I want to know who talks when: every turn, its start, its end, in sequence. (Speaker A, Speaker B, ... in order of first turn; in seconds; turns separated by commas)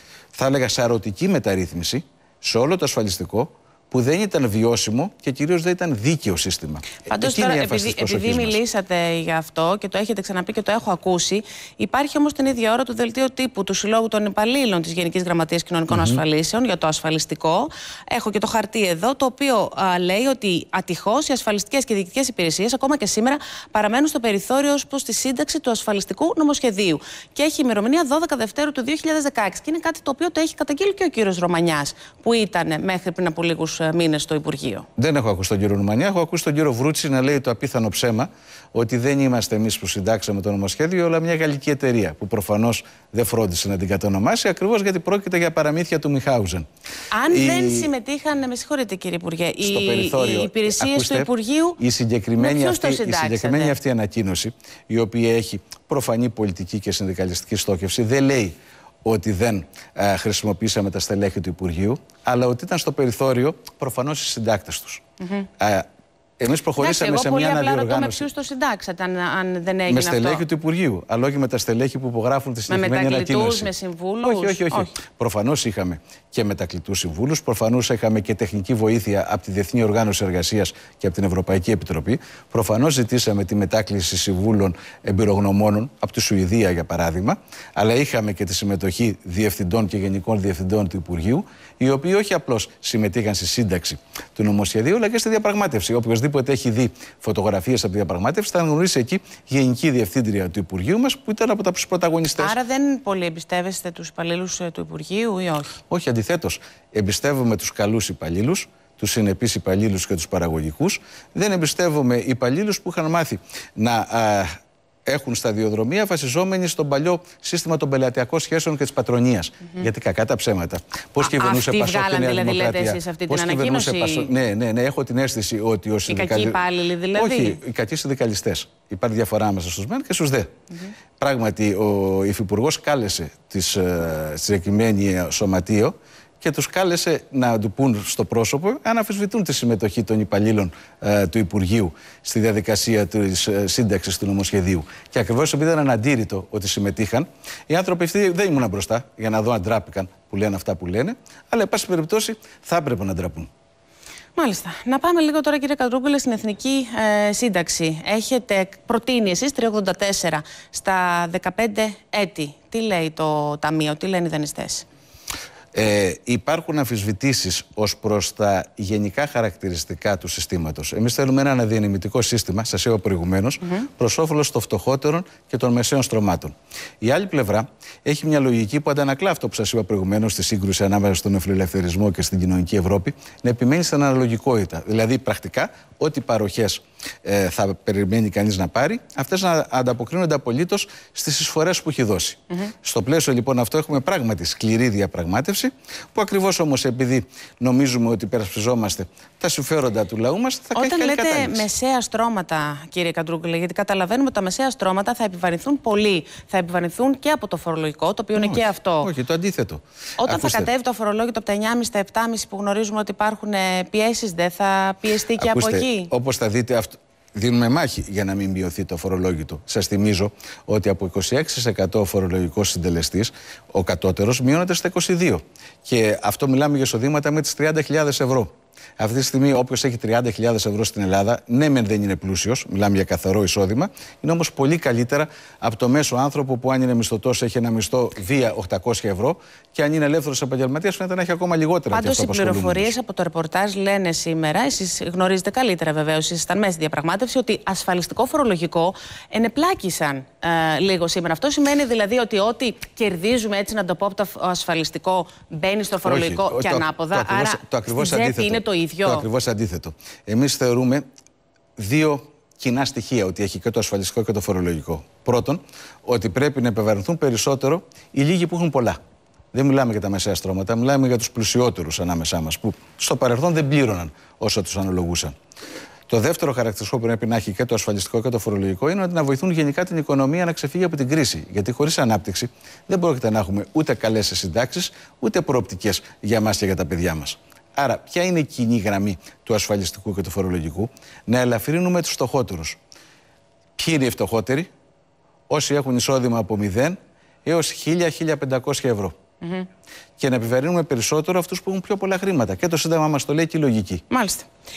Speaker A: 0.3-8.6, Speaker B: 7.1-34.9, Speaker A: 15.9-16.2, Speaker A: 35.0-46.7, Speaker B: 47.1-51.8, Speaker A: 47.3-47.9, Speaker A: 49.6-65.0, Speaker B: 52.4-53.8, Speaker B: 65.2-65.5, Speaker A: 65.6-65.9, Speaker A: 66.4-68.3, Speaker B: 66.8-70.4, Speaker A: 69.9-73.7, Speaker B: 72.7-74.9, Speaker A: 74.2-102.5, Speaker B: 102.4-105.8, Speaker A: 105.9-114.5, Speaker A: 115.0-126.6, Speaker B: 121.2-124.3, Speaker B: 126.1-127.6, Speaker A: 127.1-130.5, Speaker A: 131.2-153.5, Speaker B: 154.3-164.8, Speaker A: 165.7-201.7, Speaker B: 200.7-209.1, Speaker A: 208.3-210.7, Speaker B: 210.2-216.1, Speaker A: 215.4-242.9, Speaker B: 241.9-259.3, Speaker A: 256.0-261.0, Speaker A: 261.8-269.0, Speaker A: 269.5-275.3, Speaker A: 276.1-292.8, Speaker A: 293.8-294.7, Speaker A: 295.5-299.1, Speaker B: 299.4-299.7, Speaker A: 300.2-304.0, Speaker B: 304.1-304.5